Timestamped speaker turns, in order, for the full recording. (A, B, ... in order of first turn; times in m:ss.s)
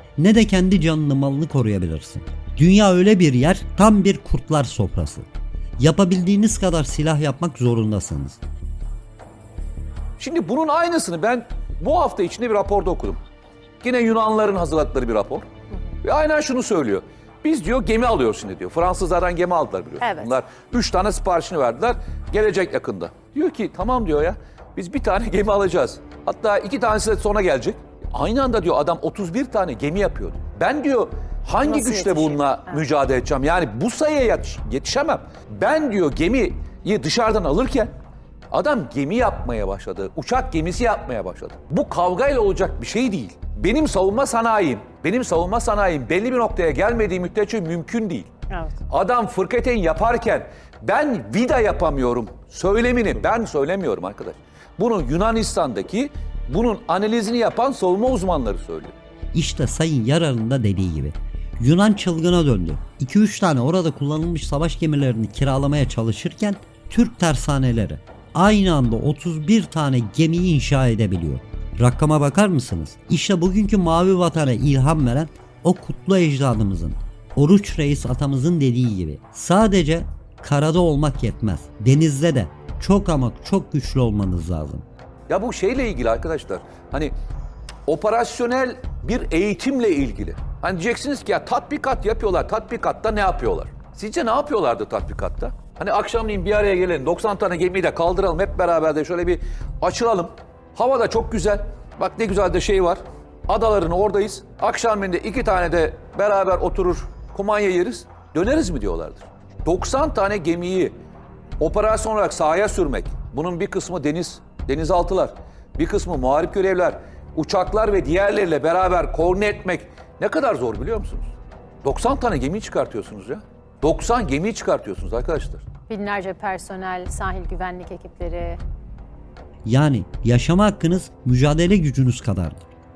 0:00.2-0:05.3 A
0:05.8-0:08.4 A
0:10.2-0:13.2 B
0:13.8-0:15.5 B
0:16.0-0:37.9 B
0:20.0-0:20.3 C
0:31.7-0:32.8 C
0:38.5-0:48.3 B
0:48.9-0:58.9 B
0:59.3-1:24.8 A
1:25.3-1:27.1 B
1:27.8-1:51.0 B
1:51.6-2:01.3 B
2:01.8-2:05.6 B
2:05.9-2:08.6 C
2:09.6-2:12.7 A